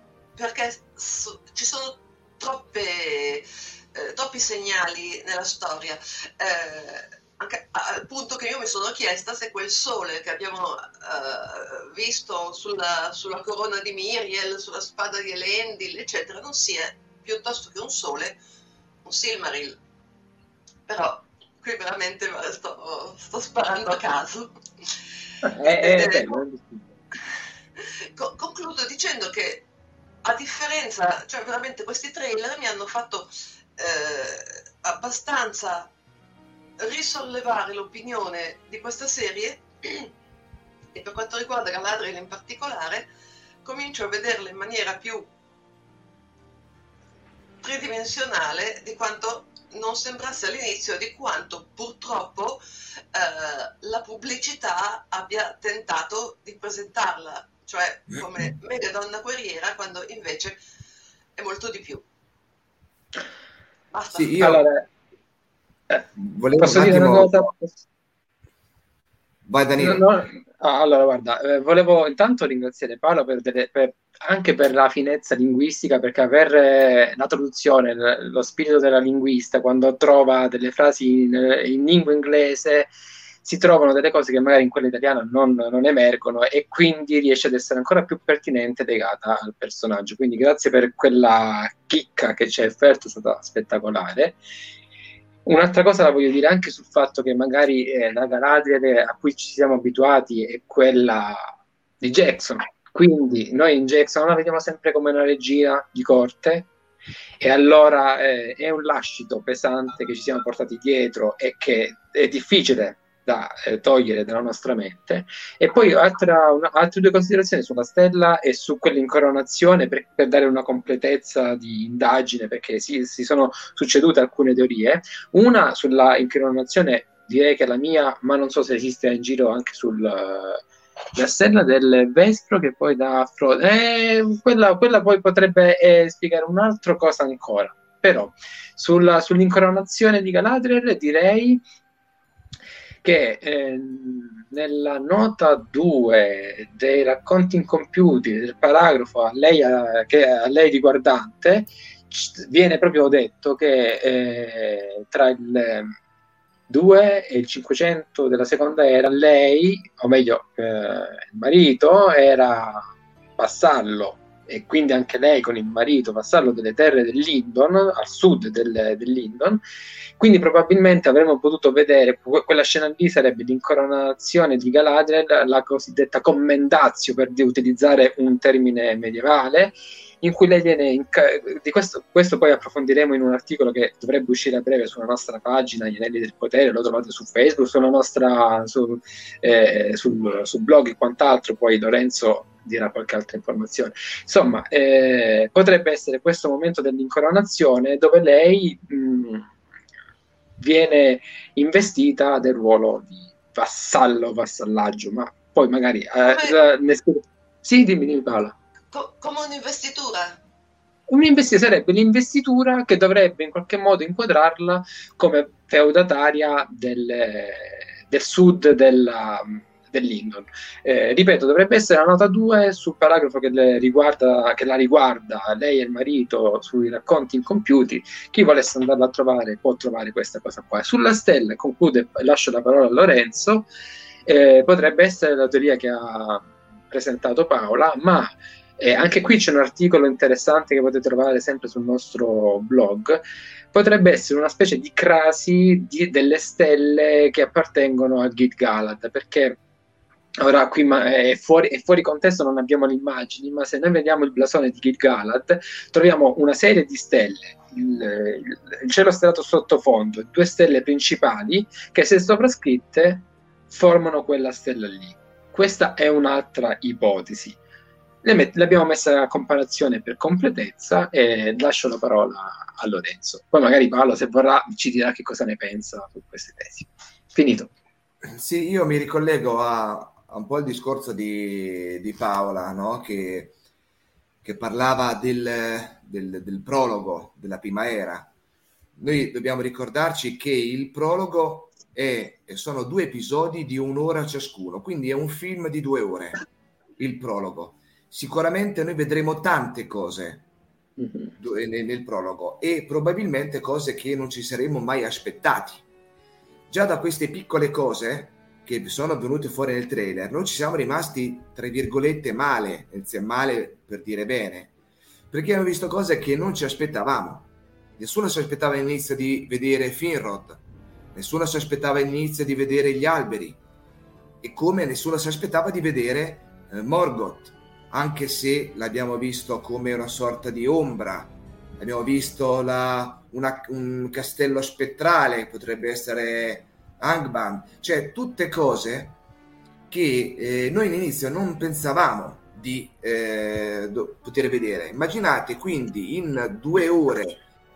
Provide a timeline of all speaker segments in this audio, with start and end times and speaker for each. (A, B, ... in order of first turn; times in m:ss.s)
0:00.4-0:18.4 A
0:19.0-0:19.8 A
0:20.9-0:24.5 A
0:25.5-0:26.8 B
0:25.6-0:26.4 A
0:27.8-0:29.6 A
0:30.2-0:35.9 A
0:36.8-0:40.1 A
0:40.9-0:43.0 A
0:43.6-0:45.3 A
0:47.6-0:52.6 A
0:53.1-1:00.6 A
1:01.4-1:02.0 A
1:03.9-1:04.3 A
1:04.1-1:04.6 C
1:04.4-1:04.8 B
1:06.2-1:07.5 C
1:06.6-1:07.8 B
1:09.4-1:10.0 C
1:09.8-1:22.9 B
1:23.4-1:34.4 B
1:35.4-1:46.7 B
1:47.4-2:10.6 B
2:11.1-2:21.6 B
2:23.0-2:35.9 B
2:36.7-2:42.8 B
2:43.4-2:49.6 B
2:50.2-3:19.5 B
3:20.6-3:28.5 B
3:26.3-3:26.5 A
3:28.9-3:30.4 A
3:31.1-3:53.7 B
3:54.3-4:03.2 B
4:03.7-4:09.6 B
4:10.4-4:27.6 B
4:28.2-4:37.7 B
4:38.2-4:43.5 C
4:44.4-4:48.3 C
4:49.0-4:56.4 C
4:57.0-5:00.4 C
5:01.0-5:01.3 B
5:01.4-5:05.8 C
5:06.7-5:14.7 C
5:15.3-5:20.6 C
5:21.1-5:23.6 C
5:24.4-5:39.2 C
5:39.9-5:47.4 C